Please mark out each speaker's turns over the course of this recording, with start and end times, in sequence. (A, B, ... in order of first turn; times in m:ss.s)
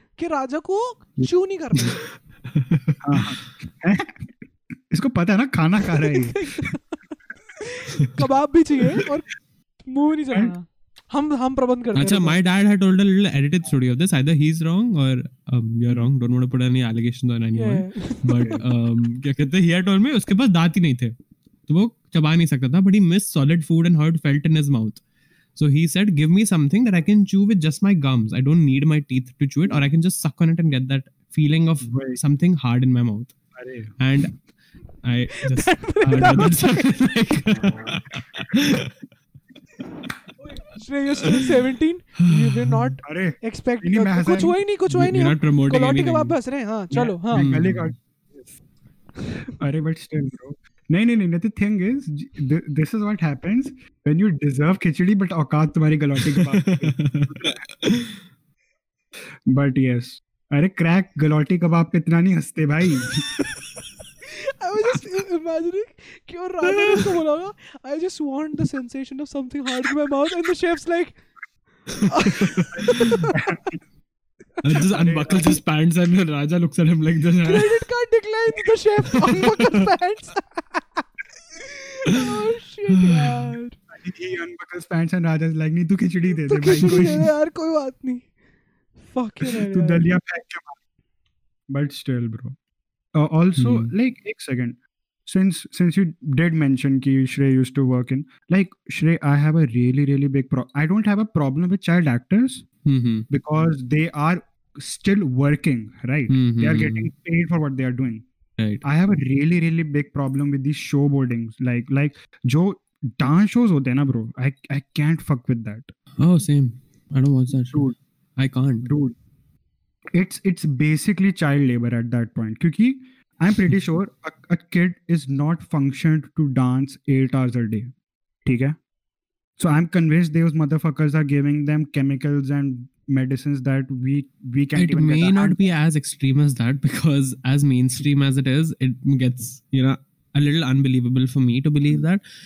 0:00.2-0:02.0 A
0:01.8-0:03.3 B
0:03.0-0:06.5 C
0:06.3-0:07.0 A
0:07.6-0:09.2 A
0:09.8-0:12.4 A
0:11.9-0:21.1 B
0:17.5-0:18.6 A
0:21.7-0:25.0 B
0:25.6-0:33.3 B
0:31.8-0:32.2 C
0:33.5-0:34.0 C
0:34.0-0:34.4 B
0:35.0-0:38.9 B
0:35.3-0:37.1 A
0:36.1-0:36.5 C
0:37.5-0:38.6 C
0:40.7-0:47.5 A
0:41.2-0:41.5 B
0:42.2-0:42.9 B
0:43.0-0:44.6 C
0:44.9-0:46.4 B
0:46.9-0:48.6 C
0:47.3-0:47.9 B
0:49.5-0:57.6 C
0:56.2-0:58.1 B
0:59.5-1:03.2 C
1:04.2-1:11.2 A
1:06.8-1:07.2 B
1:12.0-1:13.2 B
1:12.0-1:13.4 A
1:12.8-1:13.8 C
1:14.6-1:17.8 B
1:14.9-1:15.6 C
1:17.4-1:23.8 A
1:19.1-1:19.8 B
1:22.1-1:23.5 B
1:23.9-1:27.3 C
1:26.4-1:28.3 A
1:26.8-1:27.1 B
1:29.0-1:30.1 A
1:29.4-1:30.8 C
1:31.7-1:32.6 C
1:33.1-1:42.7 C
1:33.6-1:33.9 B
1:42.8-1:43.3 B
1:43.3-1:48.2 C
1:46.3-1:47.1 B
1:48.6-1:48.8 B
1:48.8-1:55.9 C
1:56.2-1:57.8 B
1:57.5-1:58.0 C
1:58.4-1:58.9 B
1:58.8-1:59.2 C
2:00.1-2:07.9 C
2:08.4-2:08.8 C
2:09.6-2:15.6 C
2:14.8-2:22.2 B